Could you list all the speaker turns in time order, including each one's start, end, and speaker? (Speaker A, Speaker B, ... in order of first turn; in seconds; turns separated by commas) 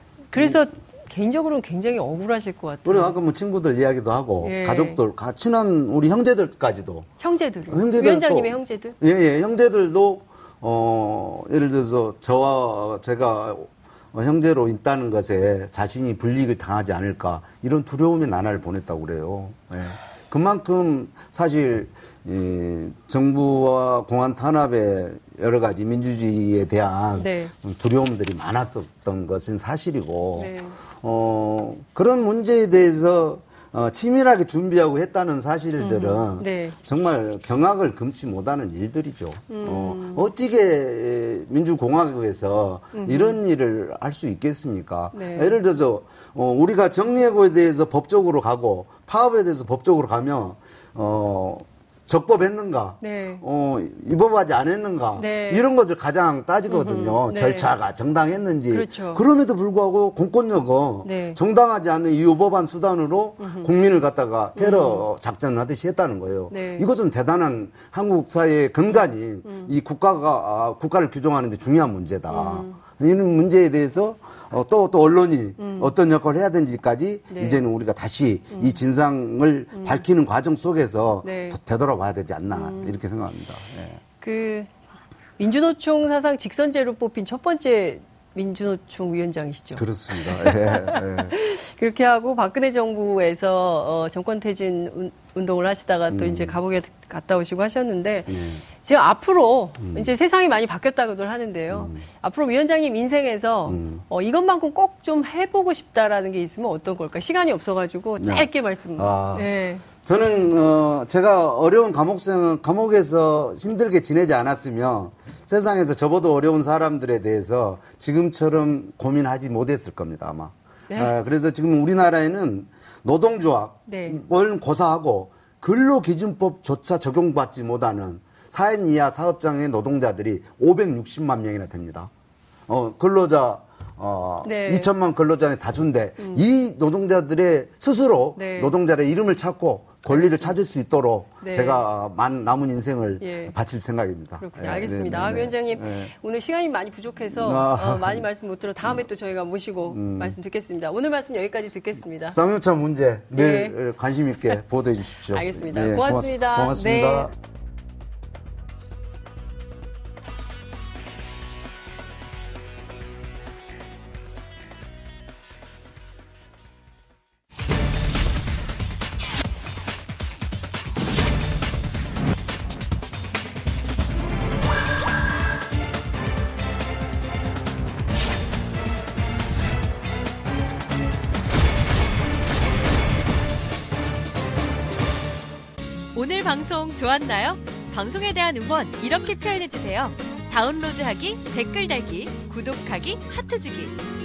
Speaker A: 0.3-3.1, Speaker B: 2.8-7.1, Speaker A: 4.4-5.0, Speaker A: 7.2-8.9, Speaker B: 7.7-84.0, Speaker A: 27.2-27.5, Speaker A: 30.4-30.8, Speaker A: 35.8-36.8, Speaker A: 39.5-40.3, Speaker A: 42.9-43.4, Speaker A: 45.1-45.5, Speaker A: 53.0-53.4, Speaker A: 55.1-55.6, Speaker A: 56.7-57.7, Speaker A: 58.7-59.2, Speaker A: 61.0-61.4, Speaker A: 63.4-63.7, Speaker A: 64.5-65.0, Speaker A: 66.5-66.8, Speaker A: 69.4-69.7, Speaker A: 72.3-72.8, Speaker A: 75.6-75.9, Speaker A: 77.3-77.6, Speaker A: 78.5-78.8, Speaker A: 79.7-80.0, Speaker A: 81.2-81.6, Speaker A: 82.5-83.0, Speaker A: 84.2-84.7, Speaker A: 85.4-109.8, Speaker B: 89.8-91.3, Speaker B: 96.1-96.6, Speaker B: 98.3-98.6, Speaker B: 99.8-100.1, Speaker B: 101.7-102.0, Speaker B: 103.7-104.0, Speaker B: 108.2-109.5, Speaker B: 110.0-132.1, Speaker A: 123.9-124.2, Speaker B: 132.7-146.1, Speaker A: 134.4-134.9, Speaker A: 136.2-136.4, Speaker A: 138.3-138.7, Speaker A: 140.1-140.6, Speaker A: 141.4-141.8, Speaker A: 143.2-143.5, Speaker A: 144.4-152.4, Speaker B: 147.3-148.2, Speaker B: 149.9-150.4, Speaker B: 152.3-157.3, Speaker A: 153.3-153.8, Speaker A: 155.3-157.3, Speaker C: 186.1-193.9